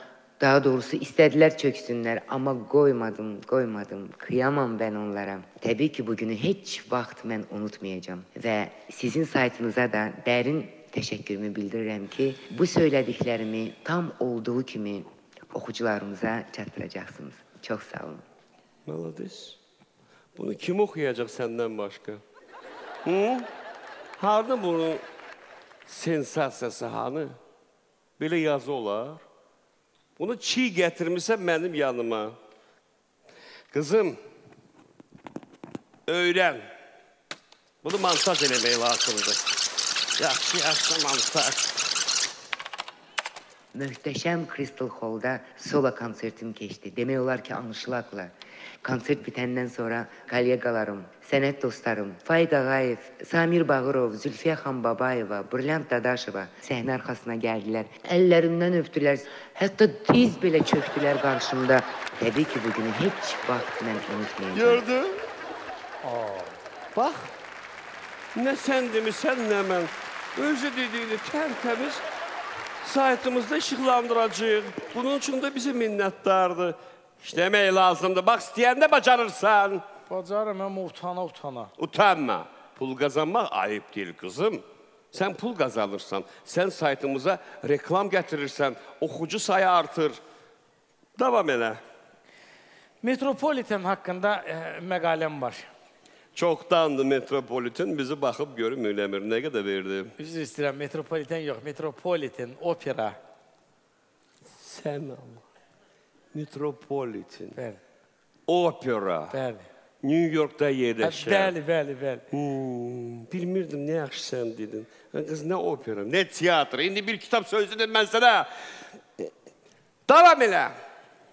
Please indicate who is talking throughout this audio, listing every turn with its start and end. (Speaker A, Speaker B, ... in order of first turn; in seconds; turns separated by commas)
Speaker A: 0.4-18.2, Speaker B: 18.9-19.6, Speaker B: 20.4-22.2, Speaker B: 23.0-23.5, Speaker B: 24.2-25.0, Speaker B: 25.9-27.3, Speaker B: 28.2-29.2, Speaker B: 30.2-32.4, Speaker B: 33.7-34.2, Speaker B: 36.1-36.6, Speaker B: 37.8-39.5, Speaker B: 40.2-41.9, Speaker A: 43.7-64.8, Speaker B: 64.5-65.2, Speaker C: 66.0-66.6, Speaker B: 66.9-67.3, Speaker B: 68.3-72.0, Speaker B: 72.8-79.8, Speaker C: 80.1-81.7, Speaker B: 81.8-90.2, Speaker B: 91.2-91.8, Speaker C: 93.0-95.7, Speaker B: 96.3-100.1, Speaker C: 100.2-103.2, Speaker B: 104.5-105.4, Speaker B: 106.3-107.6, Speaker B: 108.5-109.3, Speaker C: 109.3-109.7, Speaker B: 110.0-111.5, Speaker C: 111.0-112.2, Speaker B: 112.3-118.5, Speaker B: 120.1-120.7